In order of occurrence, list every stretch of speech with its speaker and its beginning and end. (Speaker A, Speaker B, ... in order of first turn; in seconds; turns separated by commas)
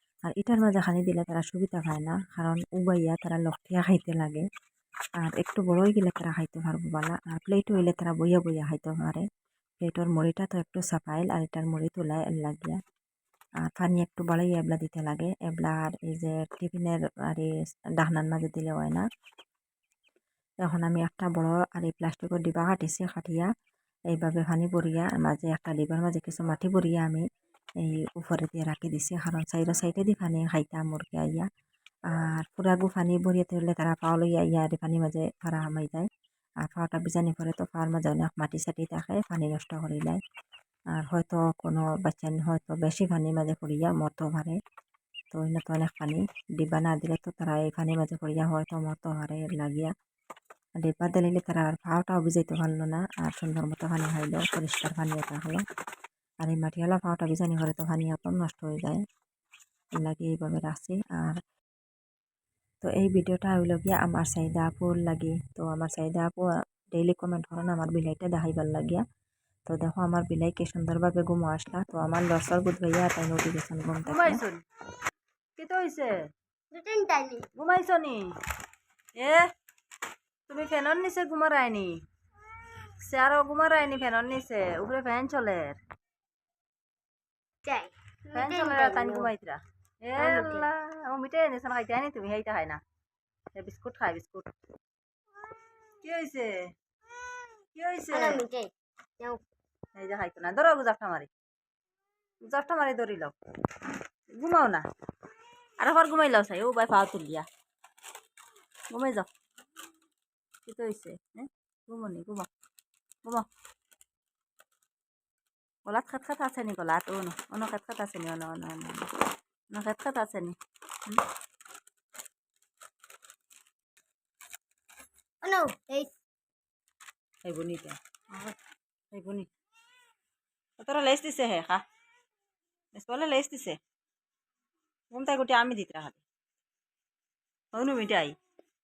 Speaker A: 0.2-4.5, Speaker A: 5.2-9.2, Speaker A: 9.8-12.8, Speaker A: 13.6-19.1, Speaker A: 20.6-23.5, Speaker A: 24.1-27.2, Speaker A: 27.8-31.4, Speaker A: 32.1-36.1, Speaker A: 36.6-40.2, Speaker A: 40.9-44.5, Speaker A: 45.3-49.9, Speaker A: 50.8-55.6, Speaker A: 56.4-59.0, Speaker A: 60.0-61.4, Speaker A: 62.8-69.0, Speaker A: 69.7-74.4, Speaker B: 74.0-74.6, Speaker B: 75.6-76.1, Speaker C: 76.7-77.5, Speaker B: 77.5-78.3, Speaker B: 79.2-79.5, Speaker B: 80.5-82.0, Speaker B: 83.0-85.8, Speaker C: 87.6-89.3, Speaker B: 88.3-92.8, Speaker C: 90.2-90.7, Speaker B: 93.5-94.5, Speaker B: 96.0-96.7, Speaker B: 97.8-98.5, Speaker C: 98.1-99.4, Speaker B: 100.0-101.3, Speaker B: 102.5-103.3, Speaker B: 104.3-104.8, Speaker B: 105.8-107.5, Speaker B: 108.9-109.3, Speaker B: 110.7-112.5, Speaker B: 115.8-119.1, Speaker B: 119.7-121.2, Speaker C: 125.4-126.1, Speaker B: 127.4-128.5, Speaker B: 129.1-129.5, Speaker B: 130.8-131.8, Speaker B: 132.9-133.8, Speaker B: 135.1-136.2, Speaker B: 137.7-138.3